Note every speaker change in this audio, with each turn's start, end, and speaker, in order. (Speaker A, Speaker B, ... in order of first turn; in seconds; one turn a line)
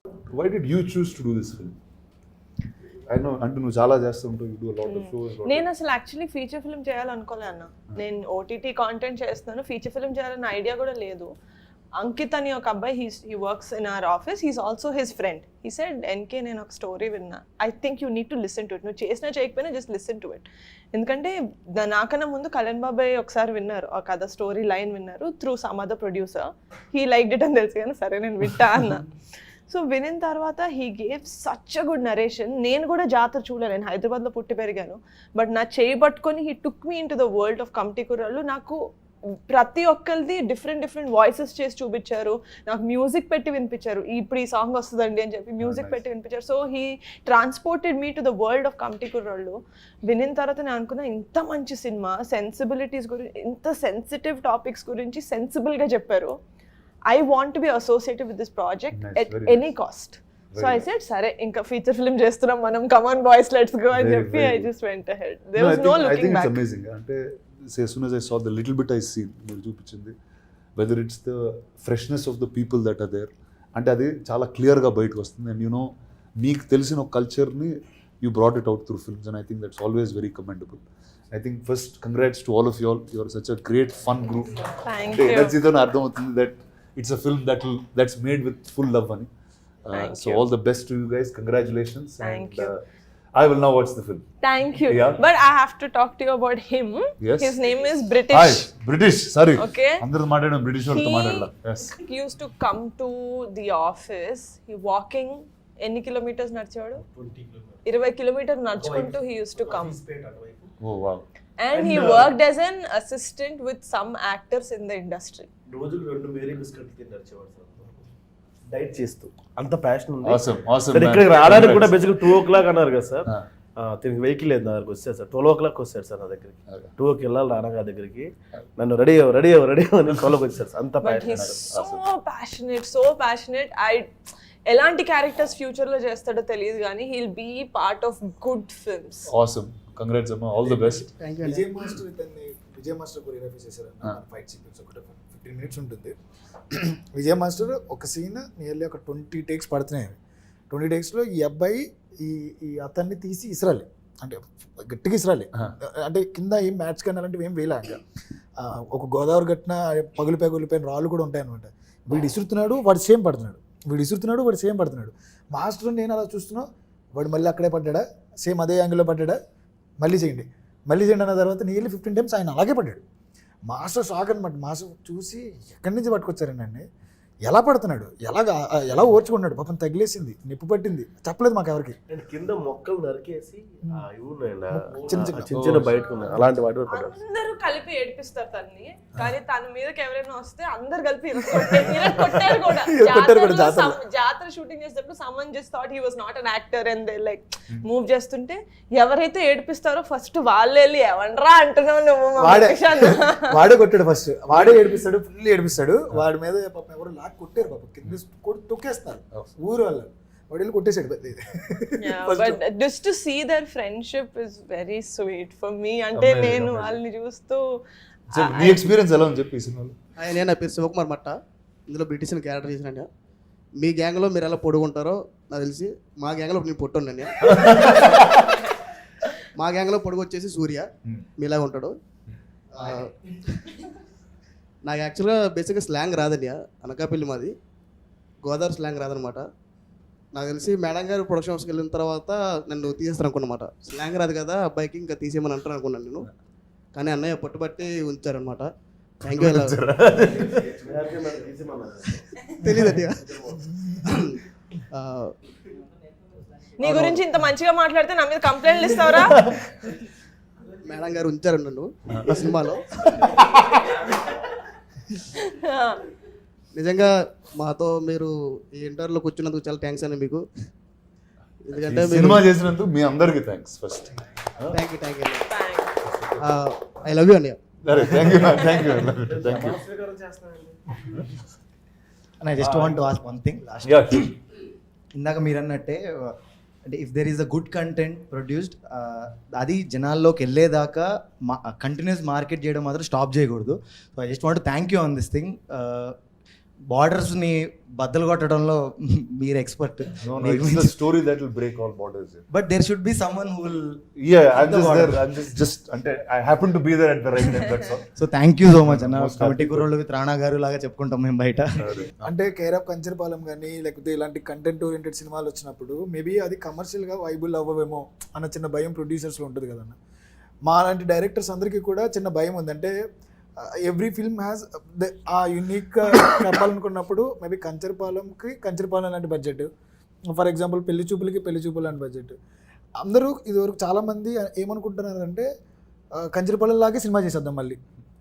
Speaker A: 0.3-1.8
Speaker A: 3.1-5.7
Speaker B: 4.9-11.3
Speaker B: 12.0-29.0
Speaker B: 29.7-38.8
Speaker B: 39.5-56.4
Speaker A: 45.6-46.0
Speaker B: 57.1-66.6
Speaker A: 58.9-59.7
Speaker A: 60.5-60.9
Speaker A: 63.9-64.7
Speaker A: 65.6-70.2
Speaker A: 70.8-89.3
Speaker B: 84.8-85.6
Speaker A: 89.9-92.8
Speaker B: 89.9-90.4
Speaker B: 92.2-92.7
Speaker A: 93.3-94.3
Speaker B: 94.4-98.7
Speaker A: 94.8-95.2
Speaker A: 97.2-97.6
Speaker A: 98.3-102.0
Speaker B: 99.6-100.0
Speaker B: 100.9-107.0
Speaker C: 107.0-107.8
Speaker B: 107.8-110.0
Speaker C: 108.7-110.7
Speaker A: 110.8-111.3
Speaker B: 111.6-115.5
Speaker C: 111.7-112.3
Speaker C: 115.7-117.9
Speaker C: 118.7-131.6
Speaker A: 120.2-122.0
Speaker B: 131.0-134.1
Speaker A: 131.3-132.0
Speaker B: 134.7-139.3
Speaker A: 139.3-141.1
Speaker D: 140.7-141.7
Speaker E: 141.4-146.1
Speaker E: 146.8-150.2
Speaker E: 150.7-158.0
Speaker E: 158.6-169.4
Speaker E: 170.0-173.0
Speaker E: 173.7-176.8
Speaker E: 177.4-182.0
Speaker C: 182.1-187.2
Speaker E: 184.7-185.6
Speaker A: 185.5-186.0
Speaker B: 185.9-203.4
Speaker E: 191.6-194.0
Speaker E: 202.4-212.6
Speaker B: 212.0-217.6
Speaker A: 216.1-217.0
Speaker A: 218.3-219.9
Speaker B: 218.3-218.9
Speaker D: 220.2-221.4
Speaker D: 221.9-223.1
Speaker D: 223.8-227.7
Speaker A: 227.6-228.4
Speaker D: 229.6-231.9
Speaker D: 232.8-233.6
Speaker D: 234.8-237.5
Speaker D: 238.4-239.4
Speaker D: 240.3-246.3
Speaker D: 246.9-248.7
Speaker D: 249.2-249.8
Speaker A: 249.3-250.8
Speaker C: 250.3-252.3
Speaker D: 252.6-253.5
Speaker C: 253.3-253.6
Speaker D: 254.1-254.4
Speaker D: 254.9-255.3
Speaker B: 256.8-259.4
Speaker D: 256.8-257.2
Speaker D: 260.9-263.2
Speaker B: 265.4-266.0
Speaker D: 266.8-270.4
Speaker D: 271.7-272.5
Speaker A: 271.8-274.8
Speaker D: 274.7-275.4
Speaker B: 275.5-275.9
Speaker A: 276.1-276.4
Speaker D: 276.4-278.1
Speaker A: 277.8-279.8
Speaker C: 278.5-280.8
Speaker F: 282.4-284.3
Speaker C: 282.6-283.0
Speaker A: 283.8-284.3
Speaker F: 285.1-296.2
Speaker F: 296.9-301.0
Speaker A: 300.2-302.5
Speaker F: 302.5-305.2
Speaker A: 304.2-308.1
Speaker F: 308.2-312.0
Speaker A: 308.8-309.9
Speaker A: 311.8-312.3
Speaker E: 312.2-320.0
Speaker E: 320.7-322.9
Speaker E: 323.6-329.7
Speaker E: 330.3-332.4
Speaker E: 333.0-335.5
Speaker E: 336.2-337.8